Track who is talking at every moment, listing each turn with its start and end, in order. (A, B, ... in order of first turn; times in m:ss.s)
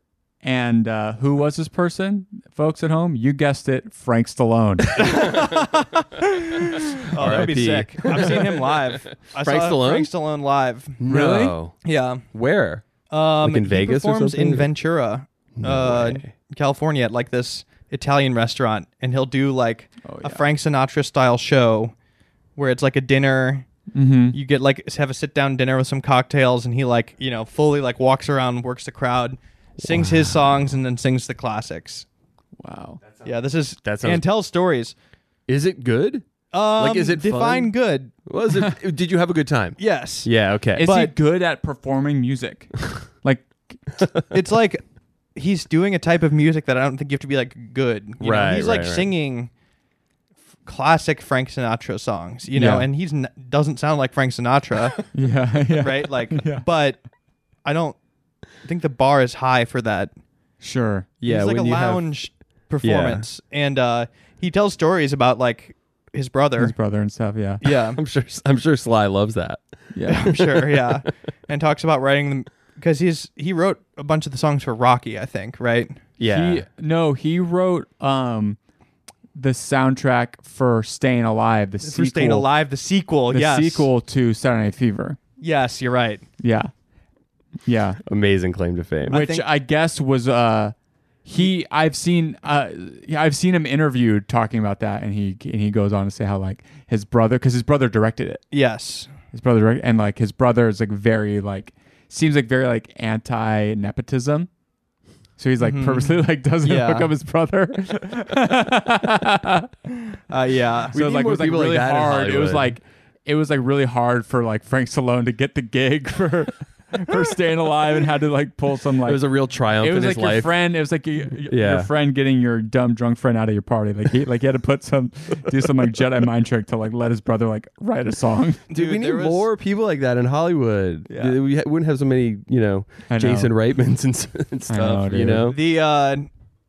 0:00.4-0:05.0 A
0:05.0-0:11.0 B
0:07.2-0:10.1 C
0:11.0-0:11.8 C
0:11.1-0:11.6 A
0:11.8-0:12.2 B
0:12.3-0:12.8 C
0:13.1-0:21.9 B
0:13.4-0:14.7 C
0:15.6-0:16.3 C
0:20.0-0:20.4 A
0:22.6-0:23.7 B
0:23.9-0:24.4 A
0:24.3-0:32.1 B
0:32.6-0:33.0 A
0:33.2-0:34.9 B
0:33.8-0:34.2 C
0:35.5-0:37.7 C
0:36.5-0:38.1 B
0:38.2-0:40.9 C
0:39.8-0:41.1 B
0:40.8-0:43.8 A
0:44.3-0:44.8 B
0:45.4-0:49.5 B
0:48.2-0:49.1 C
0:50.7-0:55.0 B
0:52.5-0:52.9 A
0:55.1-0:56.6 A
0:55.8-0:57.0 B
0:57.6-0:58.0 B
0:58.6-1:00.1 B
1:00.6-1:01.1 A
1:01.2-1:02.1 C
1:01.2-1:06.8 B
1:02.8-1:03.3 C
1:06.6-1:07.6 A
1:07.6-1:08.0 B
1:07.9-1:09.6 C
1:09.9-1:10.3 A
1:10.1-1:16.0 B
1:10.3-1:11.0 C
1:16.2-1:16.6 C
1:16.3-1:18.6 A
1:19.4-1:22.5 A
1:21.8-1:23.9 B
1:23.3-1:25.2 A
1:25.4-1:26.2 B
1:26.4-1:26.7 A
1:27.6-1:28.0 A
1:28.1-1:29.2 C
1:29.1-1:29.4 B
1:29.1-1:38.4 A
1:38.5-1:39.1 B
1:39.3-1:44.5 A
1:45.4-1:49.7 A
1:45.6-1:47.1 B
1:50.3-1:51.0 B
1:50.9-1:52.7 C
1:50.9-1:59.2 A
1:59.0-2:00.5 C
1:59.8-2:08.6 A
2:01.5-2:01.9 C
2:08.7-2:09.5 B
2:08.7-2:15.6 C
2:11.1-2:11.4 B
2:13.1-2:13.5 A
2:14.7-2:15.5 A
2:15.5-2:16.3 B